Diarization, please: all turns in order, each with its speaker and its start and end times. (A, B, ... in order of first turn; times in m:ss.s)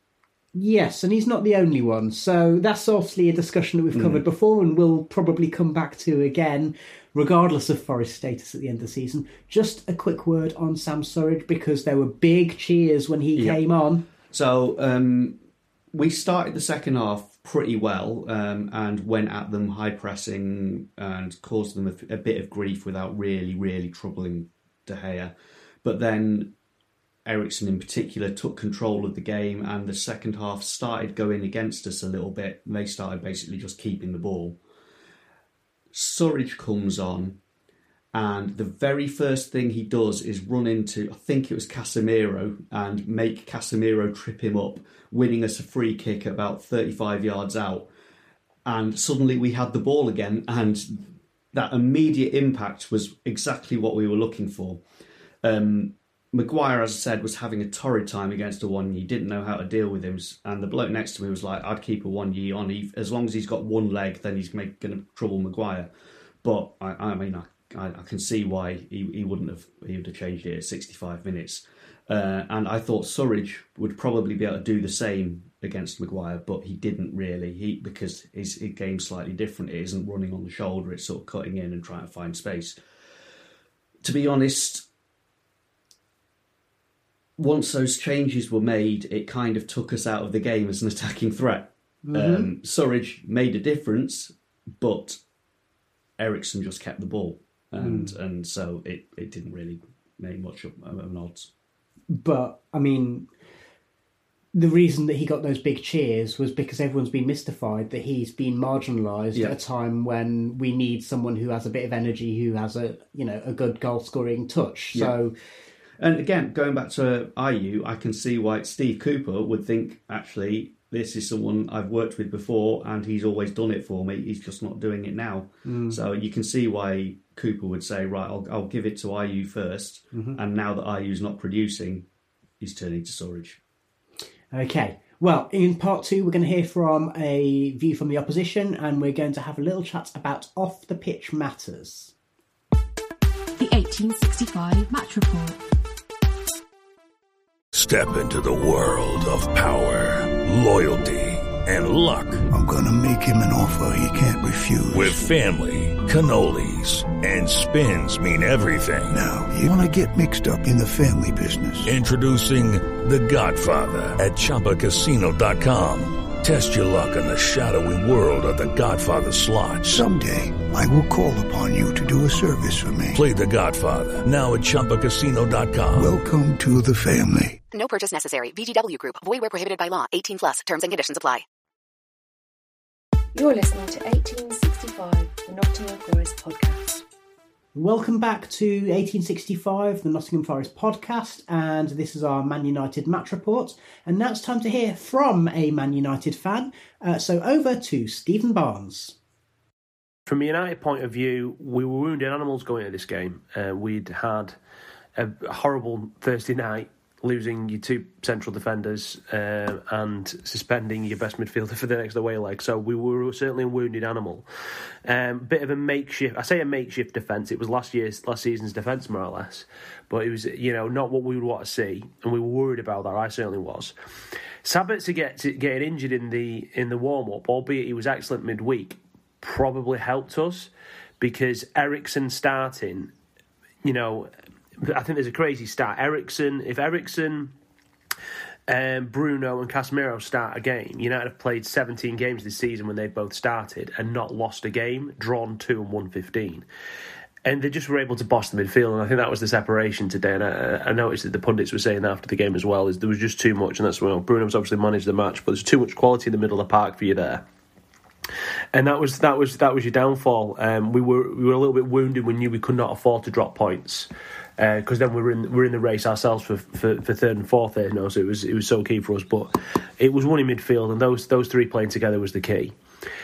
0:00.6-0:14.0 A
0:03.9-0:04.2 B
0:13.4-0:13.6 B
0:14.3-0:15.4 B
0:15.9-0:26.5 B
0:27.2-0:34.6 B
0:35.9-0:37.4 B
0:38.1-0:47.9 B
0:48.6-0:54.8 B
0:55.4-1:05.9 B
1:06.4-1:22.8 B
1:24.0-1:24.9 B
1:27.4-1:35.2 B
1:32.0-1:32.5 A
1:36.2-1:41.5 B
1:37.8-1:38.1 A
1:42.1-1:43.3 A
1:44.5-1:55.3 A
1:56.0-2:12.1 B
2:05.6-2:06.0 A
2:10.1-2:10.4 A
2:12.6-2:13.6 B
2:14.5-2:22.1 A
2:23.6-2:25.6 C
2:27.7-2:32.4 D
2:32.5-2:35.2 E
2:34.9-2:39.2 D
2:39.1-2:41.9 E
2:41.8-2:49.9 D
2:49.8-2:53.2 E
2:53.1-2:56.1 D
2:56.0-2:57.6 E
2:57.7-3:01.4 F
3:03.4-3:07.0 G
3:07.8-3:19.2 A
3:20.3-3:24.6 H
3:25.2-3:34.5 H
3:35.1-3:43.9 H
3:44.6-3:53.1 H
3:53.8-3:54.3 H
3:54.8-3:57.5 H
3:58.7-4:06.6 H
4:07.5-4:17.4 H
4:18.7-4:32.8 H